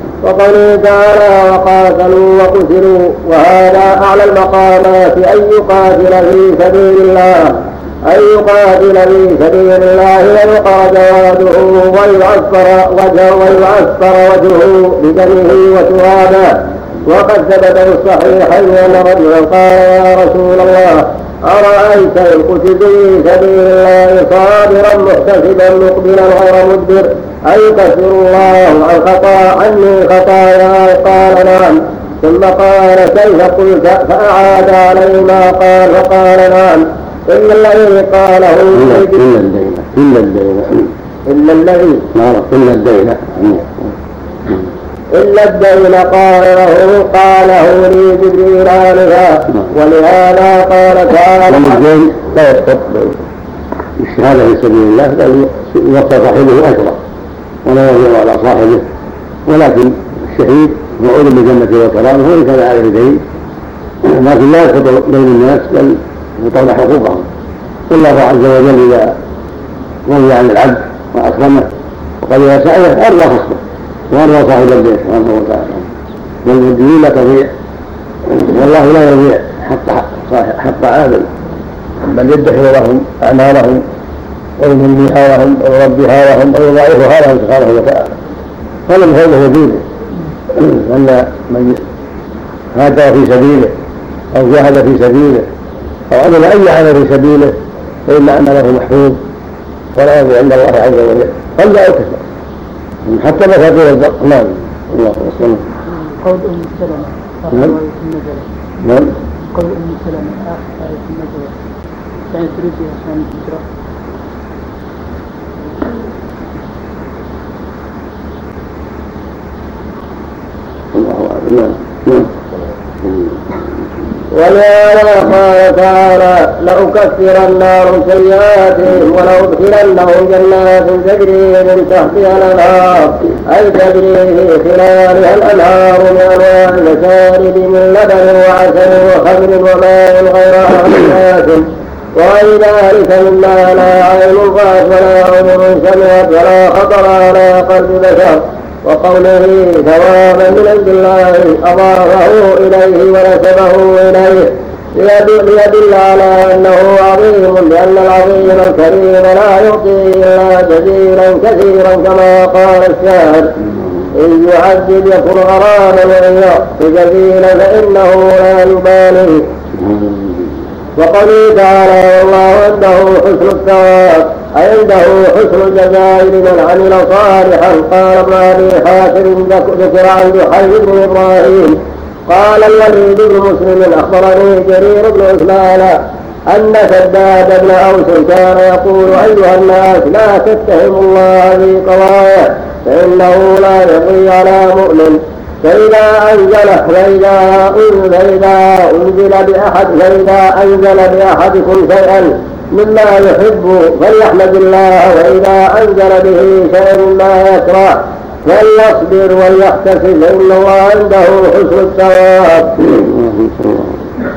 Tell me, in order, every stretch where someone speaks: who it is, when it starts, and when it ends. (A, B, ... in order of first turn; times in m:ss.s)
0:00.2-0:16.5 A
0:17.0-0:39.2 A
0:38.8-0:40.9 B
0:41.3-0:42.1 A
0:42.1-0:43.9 B
0:45.2-0:51.8 A
0:51.5-0:53.2 B
0:54.0-0:57.0 B
0:57.6-0:58.9 B
0:59.5-1:03.2 B
1:04.0-1:07.3 B
1:07.9-1:09.1 B
1:10.1-1:11.7 B
1:12.2-1:15.9 B
1:16.4-1:17.5 B
1:18.3-1:21.3 B
1:22.0-1:23.8 B
1:24.6-1:28.1 B
1:28.9-1:29.8 B
1:30.5-1:31.8 B
1:32.7-1:33.7 B
1:34.3-1:35.5 B
1:36.1-1:37.5 B
1:38.1-1:39.2 B
1:40.0-1:42.2 B
1:43.0-1:45.7 B
1:46.1-1:48.5 C
1:48.8-1:49.1 B
1:49.5-1:51.5 C
1:52.3-1:53.6 C
2:00.9-2:02.3 B
2:04.4-2:21.7 A
2:22.2-2:43.5 A
2:44.2-2:49.4 A
2:49.8-2:50.4 B
2:51.0-3:01.8 A
3:02.3-3:06.0 A
3:06.5-3:32.8 A
3:32.8-3:34.0 B